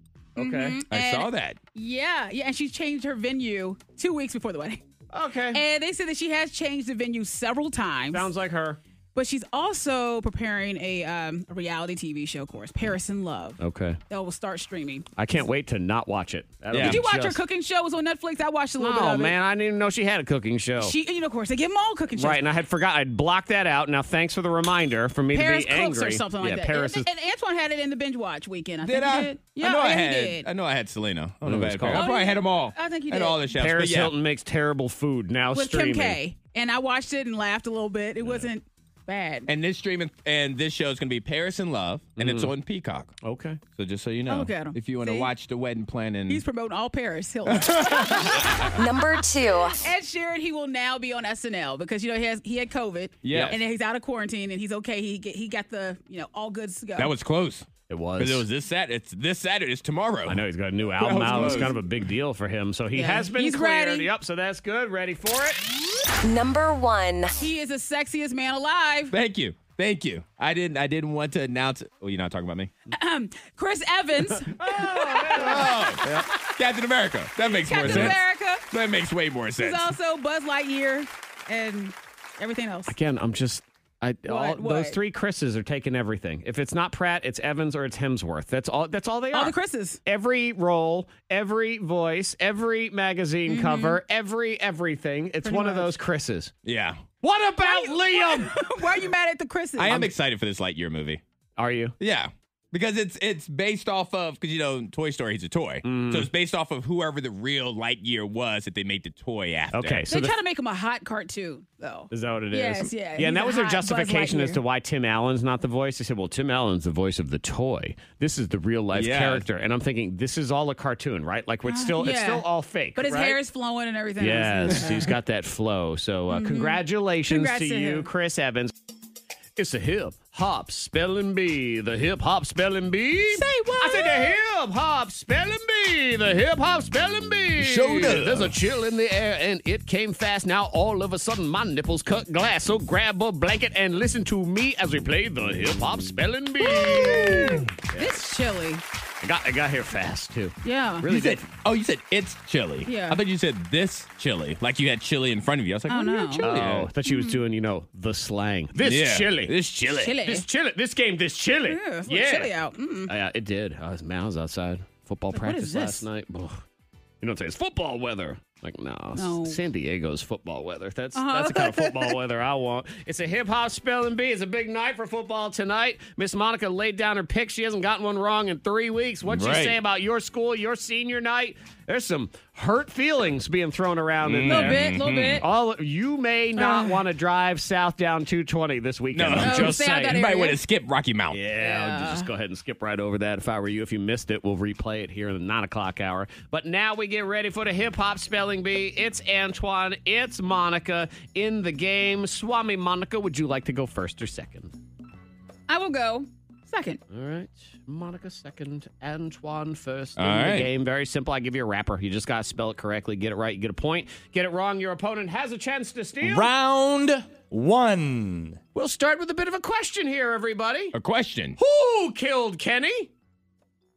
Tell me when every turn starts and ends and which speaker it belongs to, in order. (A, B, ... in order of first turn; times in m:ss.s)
0:00.4-0:00.8 A
0:00.4-0:04.8 B
0:00.9-0:01.6 C
0:05.1-0:05.6 A
0:05.5-0:08.3 B
0:08.1-0:08.8 A
0:09.1-0:15.0 B
0:13.6-0:14.0 A
0:15.2-0:17.4 A
0:16.7-0:17.0 C
0:16.8-0:19.3 B
0:18.8-0:20.9 A
0:20.8-0:22.4 B
0:22.2-0:27.1 A
0:25.3-0:30.5 B
0:28.8-0:34.1 C
0:31.4-0:32.0 A
0:31.9-0:33.4 B
0:33.5-0:36.2 A
0:35.5-0:39.5 B
0:39.5-0:43.2 C
0:42.2-0:42.5 A
0:43.2-0:43.6 A
0:43.7-0:46.4 C
0:44.3-0:45.3 B
0:46.3-0:48.7 B
0:47.5-0:48.2 C
0:48.8-0:49.8 D
0:49.8-0:57.1 B
0:53.2-0:53.6 C
0:53.3-0:53.6 A
0:57.0-1:00.4 C
0:57.9-0:58.4 A
1:00.3-1:05.6 A
1:01.0-1:01.8 C
1:01.4-1:01.6 B
1:02.9-1:04.1 B
1:06.2-1:07.3 D
1:07.4-1:09.1 B
1:09.1-1:12.7 C
1:12.9-1:16.2 B
1:14.4-1:16.3 A
1:15.3-1:18.2 C
1:17.4-1:18.6 B
1:17.8-1:18.2 A
1:18.7-1:19.9 C
1:19.6-1:22.9 B
1:22.9-1:36.5 A
1:24.3-1:25.0 B
1:29.3-1:30.0 B
1:33.5-1:34.0 B
1:35.4-1:35.9 B
1:36.6-1:37.0 C
1:37.2-1:38.7 A
1:37.6-1:40.1 B
1:39.8-1:41.2 C
1:41.6-1:42.0 A
1:42.0-1:50.1 C
1:45.8-1:46.3 A
1:49.7-1:50.4 A
1:50.1-1:54.6 B
1:52.1-2:03.4 A
1:58.9-1:59.4 C
2:01.7-2:05.1 B
2:04.2-2:08.7 A
2:06.3-2:08.1 B
2:09.6-2:28.3 A
2:13.3-2:14.4 B
2:17.6-2:18.6 C
2:26.6-2:28.8 B
2:26.9-2:27.7 C
2:29.2-2:31.5 A
2:30.6-2:31.0 B
2:31.0-2:36.9 C
2:32.8-2:33.2 B
2:35.9-2:37.4 B
2:36.4-2:39.5 A
2:38.8-2:40.2 C
2:40.0-2:40.4 B
2:40.2-2:42.5 A
2:41.7-2:43.1 B
2:43.1-2:46.6 A
2:45.3-2:46.0 B
2:47.2-3:04.9 A
2:49.2-2:49.6 B
2:51.1-2:52.2 B
2:59.3-2:59.8 C
3:04.2-3:05.4 C
3:04.4-3:05.4 B
3:05.4-3:10.2 A
3:06.6-3:07.0 B
3:09.1-3:11.4 C
3:09.4-3:10.6 B
3:11.3-3:24.7 A
3:11.6-3:12.3 B
3:25.7-3:27.0 B
3:27.1-3:36.5 A
3:30.2-3:30.7 C
3:36.3-3:38.6 C
3:38.7-3:40.9 A
3:40.9-3:41.6 C
3:41.6-3:43.1 A